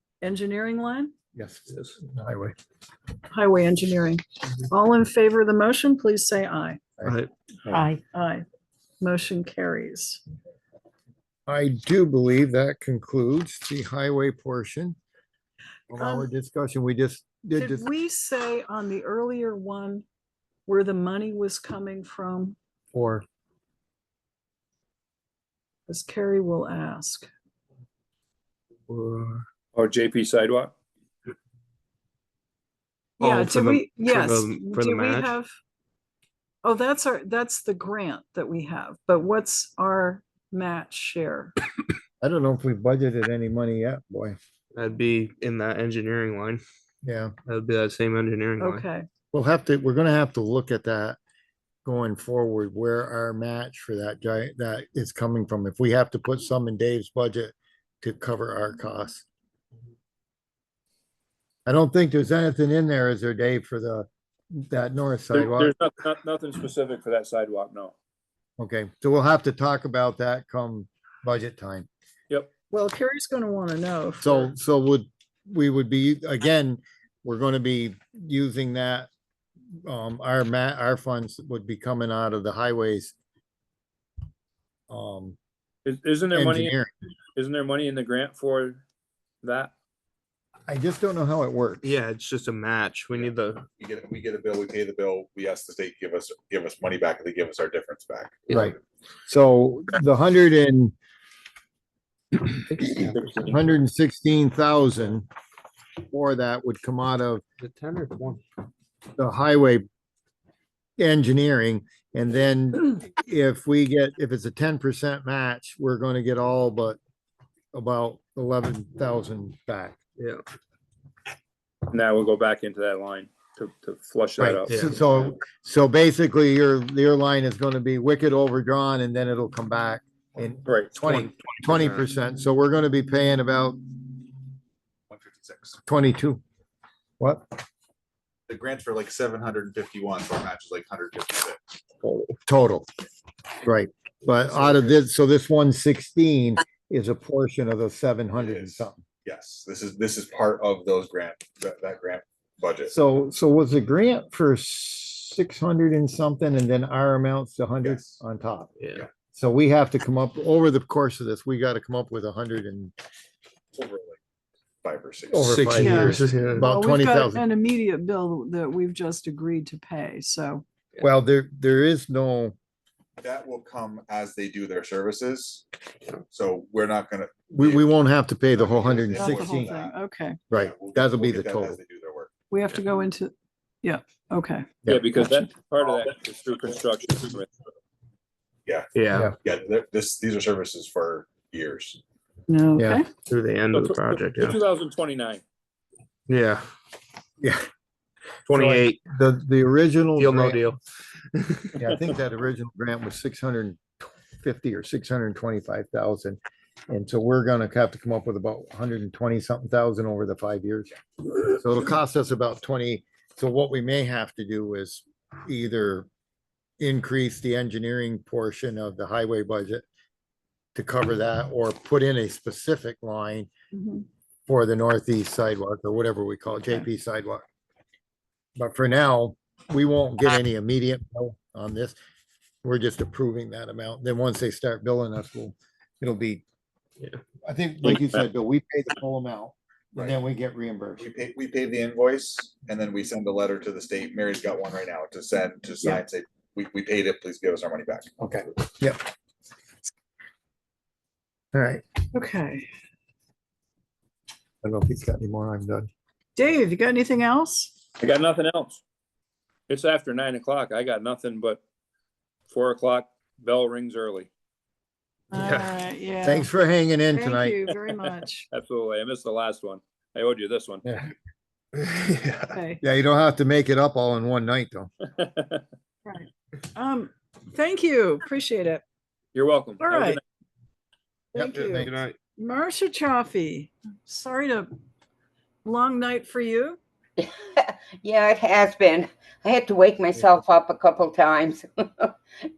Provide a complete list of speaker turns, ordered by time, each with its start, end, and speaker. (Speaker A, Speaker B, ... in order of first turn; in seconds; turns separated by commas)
Speaker A: 0.2-1.1, Speaker B: 1.3-2.5, Speaker A: 3.3-6.8, Speaker B: 7.0-7.9, Speaker C: 7.0-7.3, Speaker A: 8.1-8.4, Speaker A: 9.0-10.2, Speaker B: 11.5-15.0, Speaker B: 15.9-17.9, Speaker A: 16.0-16.2, Speaker A: 17.6-20.1, Speaker A: 20.7-22.6, Speaker B: 22.9-23.2, Speaker A: 25.9-27.3, Speaker C: 28.9-29.4, Speaker D: 29.7-30.7, Speaker A: 33.2-35.5, Speaker C: 33.2-35.3, Speaker A: 36.6-41.5, Speaker B: 42.2-44.4, Speaker C: 44.7-46.6, Speaker B: 47.0-47.3, Speaker C: 47.5-48.8, Speaker A: 48.6-49.0, Speaker B: 49.3-51.2, Speaker B: 51.8-59.2, Speaker B: 61.6-65.7, Speaker D: 65.3-67.9, Speaker B: 68.6-71.9, Speaker A: 72.7-74.5, Speaker B: 74.2-79.1, Speaker B: 79.8-83.1, Speaker B: 84.9-85.4, Speaker D: 85.8-86.8, Speaker B: 86.3-86.9, Speaker D: 87.3-88.8, Speaker D: 89.4-89.7, Speaker B: 90.7-91.9, Speaker C: 91.8-93.7, Speaker E: 93.2-98.4, Speaker B: 98.5-100.9, Speaker C: 102.7-103.1, Speaker B: 102.8-105.3, Speaker D: 103.1-103.5, Speaker B: 106.1-107.4, Speaker C: 107.6-108.4, Speaker B: 109.2-109.8, Speaker B: 111.0-117.0, Speaker B: 117.7-120.0, Speaker D: 121.9-125.3, Speaker B: 124.4-134.2, Speaker C: 124.7-125.0, Speaker D: 130.6-131.0, Speaker C: 131.0-132.0, Speaker E: 135.1-135.8, Speaker B: 135.9-136.4, Speaker B: 137.2-137.5, Speaker E: 138.5-141.6, Speaker B: 142.4-142.9, Speaker B: 143.6-149.0, Speaker E: 148.4-152.9, Speaker B: 152.9-158.7, Speaker E: 157.8-158.2, Speaker C: 158.8-159.1, Speaker B: 159.3-162.9, Speaker E: 163.8-164.2, Speaker E: 164.8-165.5, Speaker B: 165.3-167.4, Speaker C: 165.4-166.7, Speaker A: 165.8-170.6, Speaker B: 171.0-172.6, Speaker E: 173.2-175.7, Speaker E: 176.3-177.9, Speaker B: 177.5-179.7, Speaker E: 178.5-179.9, Speaker A: 179.1-180.4, Speaker B: 180.5-181.8, Speaker E: 180.6-182.3, Speaker A: 182.5-184.7, Speaker B: 184.8-185.1, Speaker D: 184.8-187.5, Speaker E: 188.7-192.0, Speaker C: 188.9-189.3, Speaker A: 192.5-193.0, Speaker B: 192.8-193.0, Speaker C: 193.3-194.6, Speaker D: 193.7-195.4, Speaker C: 196.3-196.6, Speaker B: 197.4-197.7, Speaker C: 198.5-199.0, Speaker B: 198.5-200.6, Speaker C: 200.2-200.8, Speaker C: 201.3-201.8, Speaker B: 201.8-216.1, Speaker B: 216.8-219.8, Speaker B: 220.8-223.5, Speaker A: 223.7-224.1, Speaker B: 224.5-227.4, Speaker B: 228.6-232.0, Speaker B: 232.6-236.4, Speaker B: 237.4-241.0, Speaker E: 241.0-248.1, Speaker B: 248.2-249.1, Speaker B: 251.5-251.8, Speaker A: 252.1-252.7, Speaker B: 254.6-255.9, Speaker A: 256.4-257.7, Speaker D: 258.0-258.8, Speaker D: 259.7-261.6, Speaker D: 262.5-264.3, Speaker A: 265.3-266.5, Speaker C: 265.4-265.7, Speaker B: 266.2-267.6, Speaker A: 267.1-268.5, Speaker D: 268.0-270.8, Speaker B: 270.8-271.1, Speaker C: 271.8-272.5, Speaker A: 272.5-272.8, Speaker B: 272.8-274.9, Speaker D: 275.2-275.6, Speaker A: 276.1-278.8, Speaker D: 279.3-280.2, Speaker A: 279.8-280.2, Speaker A: 281.3-284.7, Speaker C: 281.4-282.2, Speaker A: 285.6-286.8, Speaker F: 287.2-292.1